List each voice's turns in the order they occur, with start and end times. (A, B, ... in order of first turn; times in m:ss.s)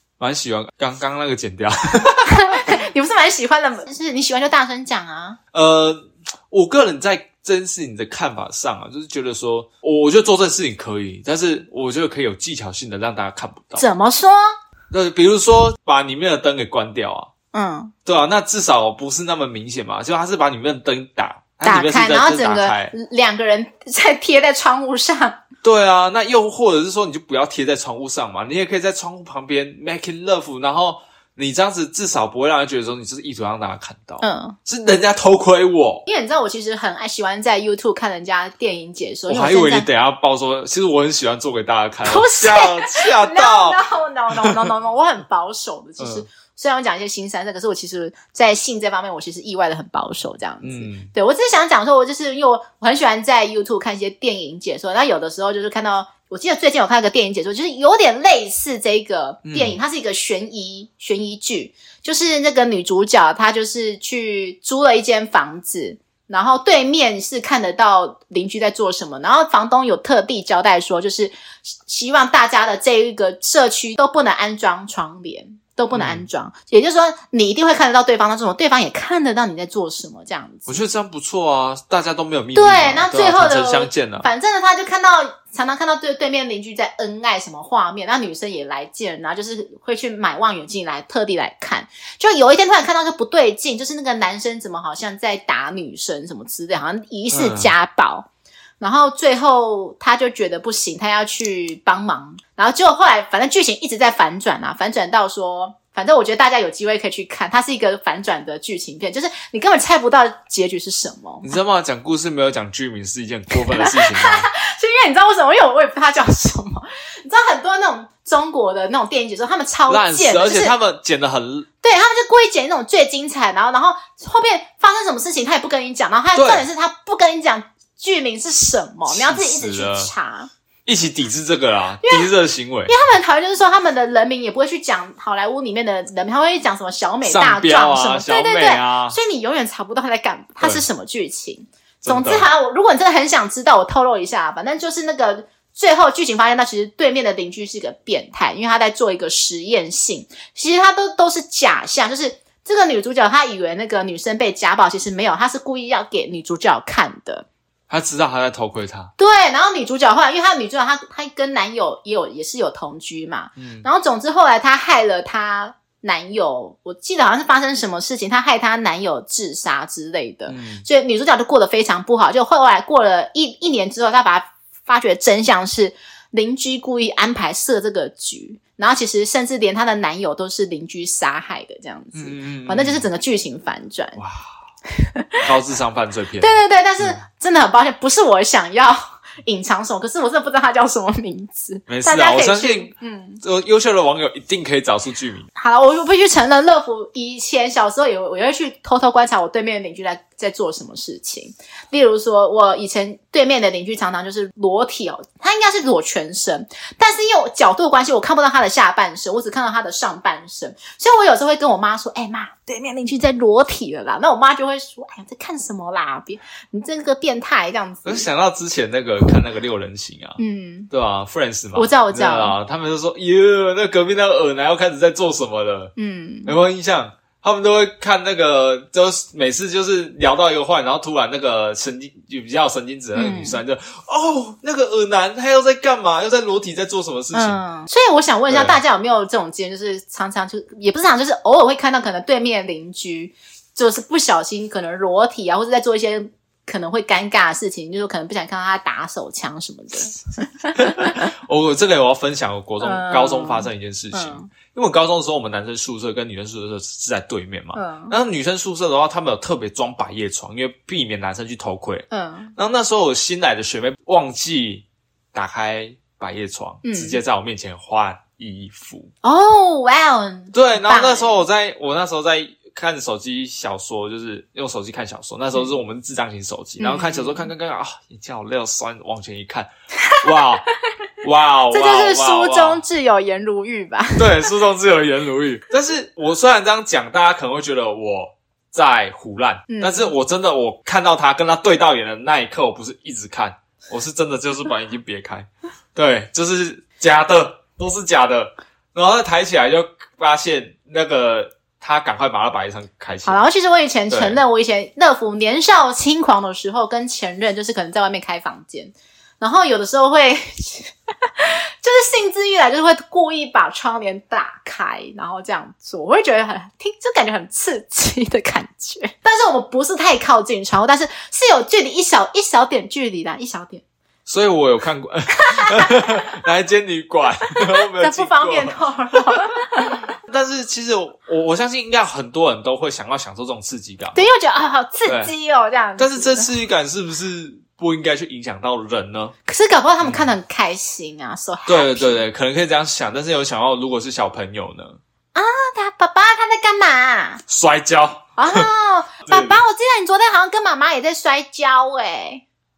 0:00.2-0:02.6 A
0:02.3-0:05.4 B
0:05.5-0:13.8 A
0:13.8-0:14.5 B
0:14.9-0:17.3 A
0:17.5-0:17.9 B
0:18.0-0:22.9 A
0:21.6-0:25.4 B
0:25.6-0:36.0 A
0:34.2-0:34.6 B
0:36.0-0:39.9 B
0:39.3-0:43.8 A
0:42.0-1:20.8 B
0:46.0-0:46.2 A
0:50.6-0:51.1 A
0:59.4-0:59.8 A
1:15.9-1:16.2 A
1:20.7-1:24.3 A
1:22.5-1:38.3 B
1:37.3-1:37.7 A
1:38.8-1:51.5 B
1:51.4-1:54.5 A
1:53.7-2:00.7 B
1:59.9-2:01.7 A
2:01.8-2:10.5 B
2:06.3-2:06.7 A
2:09.1-2:10.1 A
2:10.8-2:12.9 A
2:12.0-2:12.3 B
2:12.9-2:37.4 B
2:17.2-2:19.2 A
2:22.0-2:22.5 A
2:37.9-2:39.1 A
2:39.2-3:04.2 B
2:43.6-2:43.8 A
2:50.5-2:50.8 A
3:02.1-3:03.0 A
3:04.2-3:04.4 A
3:05.0-3:05.4 B
3:05.4-3:07.2 A
3:06.4-3:13.4 B
3:11.9-3:15.5 A
3:15.6-3:38.3 B
3:38.0-3:40.4 A
3:40.4-3:40.9 B
3:40.9-3:45.9 A
3:41.7-3:42.6 B
3:46.0-3:46.5 B
3:46.4-3:57.6 A
3:53.1-3:53.6 B
3:57.3-4:11.3 B
3:58.5-3:58.8 A
4:10.7-4:29.1 A
4:12.8-4:14.5 B
4:17.7-4:18.1 B
4:22.1-4:22.5 B
4:26.8-4:27.2 B
4:29.2-4:31.4 B
4:30.5-4:39.7 A
4:36.8-4:37.5 B
4:40.2-4:40.6 A
4:41.2-4:42.8 A
4:41.7-4:44.5 B
4:44.2-5:03.4 A
4:49.7-4:50.1 B
5:03.2-5:23.8 B
5:04.1-5:04.4 A
5:24.2-5:34.2 A
5:25.4-5:26.3 B
5:27.8-5:30.1 B
5:34.1-5:36.5 B
5:35.0-5:35.3 A
5:36.0-5:39.3 A
5:39.5-5:42.2 B
5:40.0-5:40.3 A
5:41.7-5:45.0 A
5:45.3-5:47.4 B
5:47.5-5:48.7 A
5:48.4-5:52.4 B
5:49.3-5:49.6 A